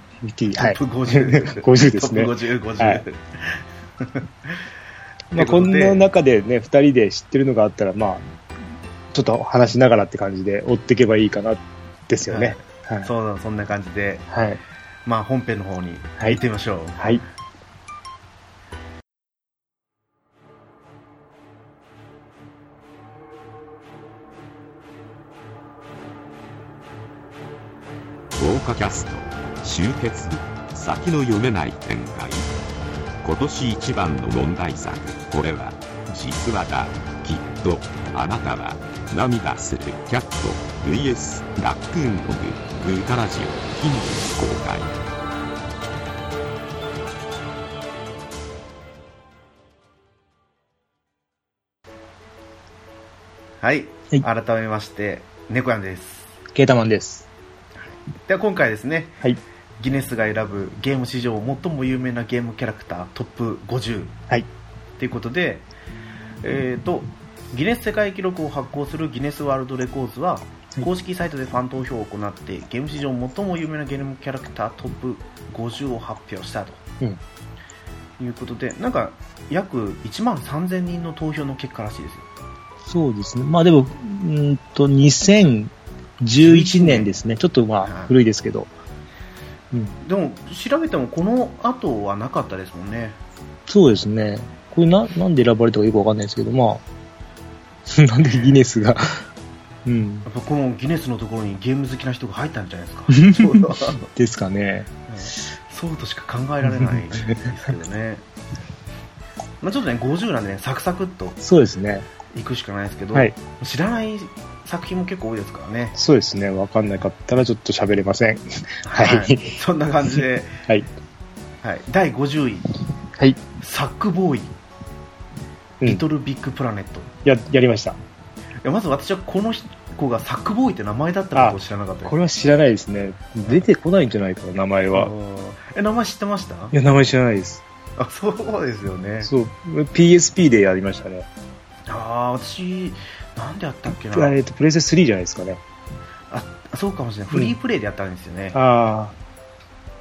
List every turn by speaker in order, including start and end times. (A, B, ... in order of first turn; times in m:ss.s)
0:00.2-0:03.0 A
0:00.6-0:04.6 B
0:05.3-0:08.2 A
0:05.3-0:06.1 B
0:09.1-0:13.1 A
0:12.3-0:14.3 B
0:14.3-0:14.6 A
0:15.0-0:17.1 B
0:17.0-0:17.2 A
0:28.4-0:32.5 C
0:33.2-0:45.0 C
0:53.6-0:56.4 B
0:56.5-0:57.3 A
0:57.8-0:59.2 B
0:59.8-1:04.2 B
1:05.0-1:05.7 B
1:06.4-1:16.8 B
1:18.2-1:22.3 B
1:22.8-1:28.7 A
1:26.4-1:27.1 B
1:27.8-1:28.1 B
1:30.0-1:33.2 B
1:33.7-1:36.8 A
1:37.9-1:39.2 A
1:38.2-1:38.6 B
1:39.8-1:40.2 A
1:40.2-1:44.1 B
1:43.2-1:44.9 A
1:45.1-1:48.2 B
1:46.6-1:47.5 A
1:49.6-1:51.4 B
1:51.4-1:52.1 A
1:52.3-1:56.0 B
1:56.0-2:00.9 A
1:58.8-2:00.6 B
2:01.6-2:02.7 B
2:03.2-2:03.4 A
2:03.6-2:04.5 B
2:05.8-2:07.1 B
2:07.2-2:08.0 A
2:08.6-2:12.2 B
2:11.3-2:15.1 A
2:14.9-2:16.8 B
2:16.7-2:17.6 A
2:18.0-2:19.3 B
2:19.2-2:21.3 A
2:21.9-2:24.4 B
2:24.0-2:25.6 A
2:26.3-2:28.6 B
2:28.5-2:29.1 A